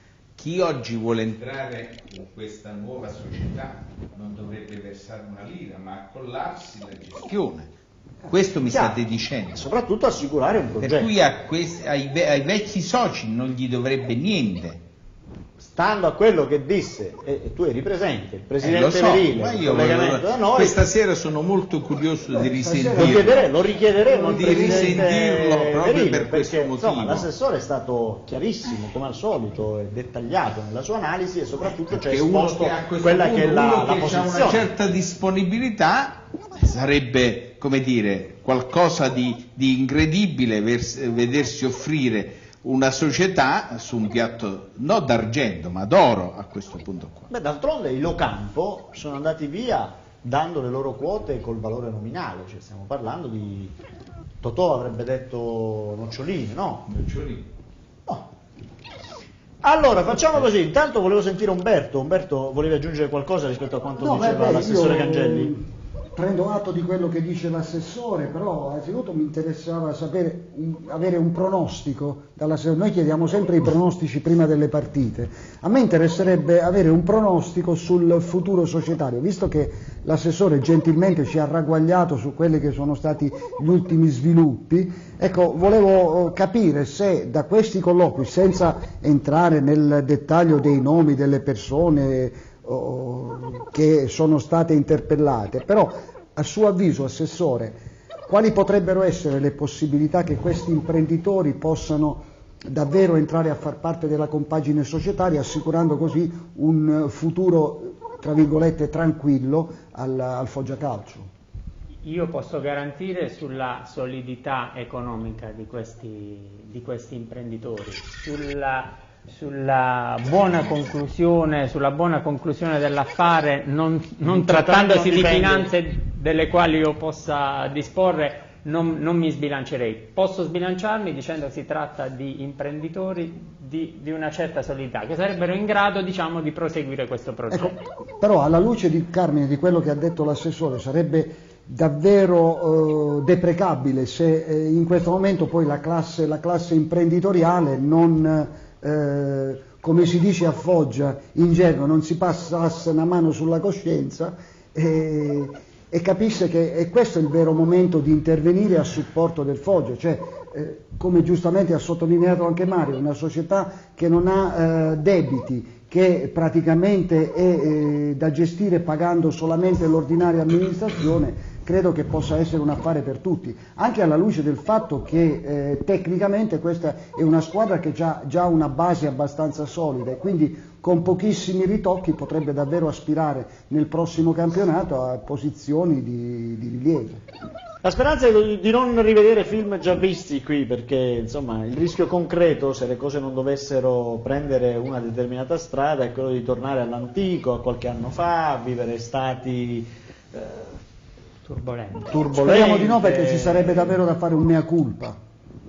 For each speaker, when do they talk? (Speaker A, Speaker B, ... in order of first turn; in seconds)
Speaker A: 0.4-7.7, 8.3-9.7, 10.8-14.8, 18.6-23.5, 24.3-27.3, 31.9-47.3, 56.9-57.5
Speaker B: 8.7-9.0, 9.5-11.1, 15.6-20.8, 23.0-34.7, 47.3-53.7, 54.4-56.8, 59.6-65.5, 124.2-125.7, 187.8-200.6, 202.1-204.0
Speaker C: 22.4-23.5, 24.0-25.1, 64.0-111.3, 137.5-187.2, 202.1-205.2
Speaker D: 112.0-137.8, 201.5-202.2